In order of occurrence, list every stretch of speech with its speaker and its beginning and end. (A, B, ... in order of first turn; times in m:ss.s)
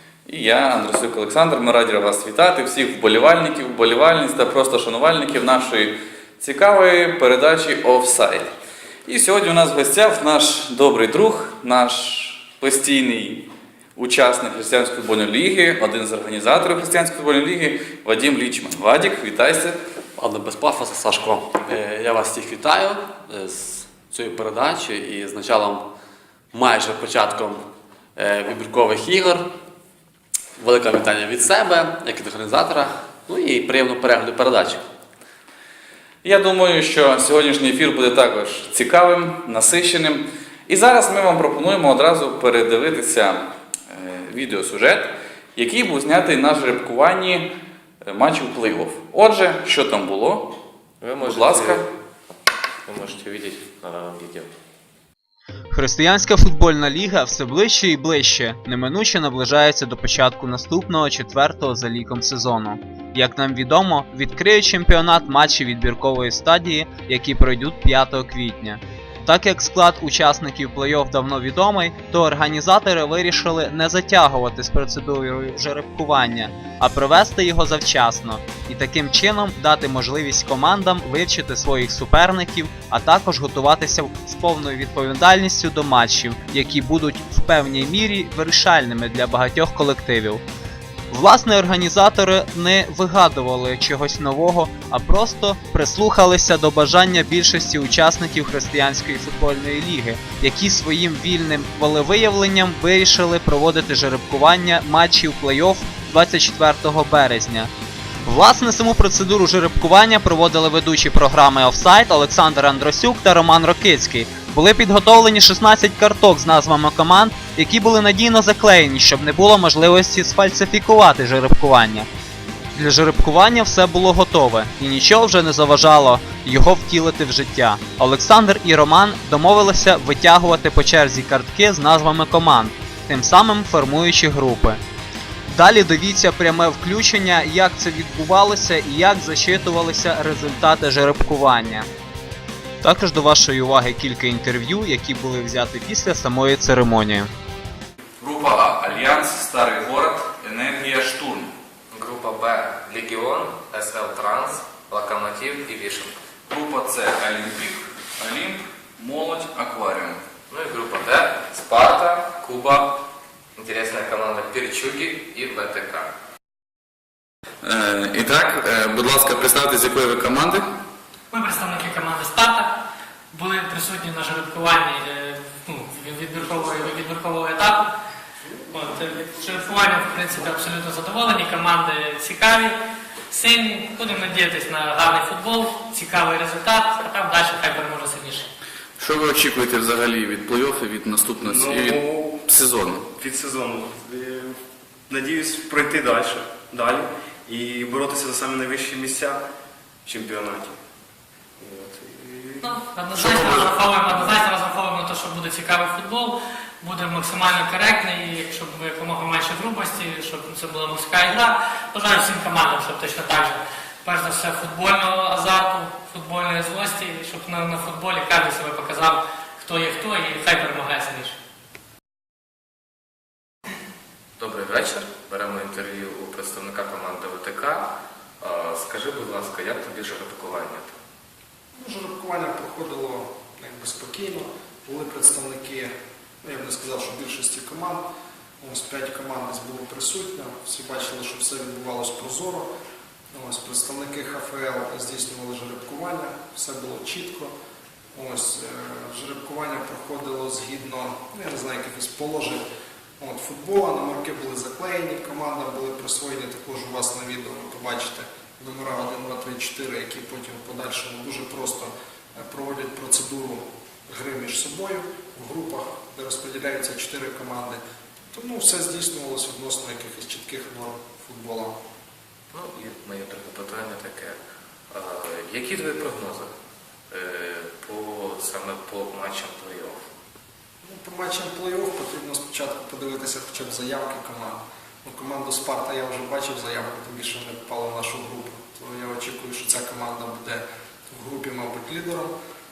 0:00.3-0:08.5 A
0:09.1-0:19.8 A
0:20.2-0:25.9 B
0:26.5-0:27.6 B
0:28.2-0:29.5 B
0:30.6-0:34.8 B
0:36.2-0:47.5 A
0:48.0-0:50.6 A
0:51.0-0:51.9 C
0:51.2-0:51.8 A
0:52.8-0:54.5 C
0:55.7-1:30.4 D
1:31.1-1:47.7 D
1:48.3-2:02.1 D
2:02.8-2:14.8 D
2:15.5-2:21.9 D
2:22.8-2:27.3 D
2:28.2-2:31.5 A
2:31.9-2:36.1 C
2:36.5-2:40.2 A
2:40.5-2:46.2 C
2:47.6-2:50.7 A
2:51.3-2:57.9 E
2:58.7-3:02.8 E
3:03.3-3:08.5 E
3:09.0-3:13.1 A
3:11.4-3:12.4 F
3:13.1-3:14.6 F
3:15.1-3:19.4 F
3:20.0-3:20.8 F
3:21.6-3:23.7 F
3:22.6-3:41.4 E
3:44.4-3:51.0 C
3:51.8-3:58.0 G
3:58.6-4:02.7 G
4:03.3-4:07.5 G
4:08.2-4:12.6 G
4:13.2-4:27.8 G
4:28.3-4:31.8 G
4:32.5-4:34.4 C
4:34.9-4:36.5 C
4:37.1-4:40.1 C
4:40.8-4:52.3 G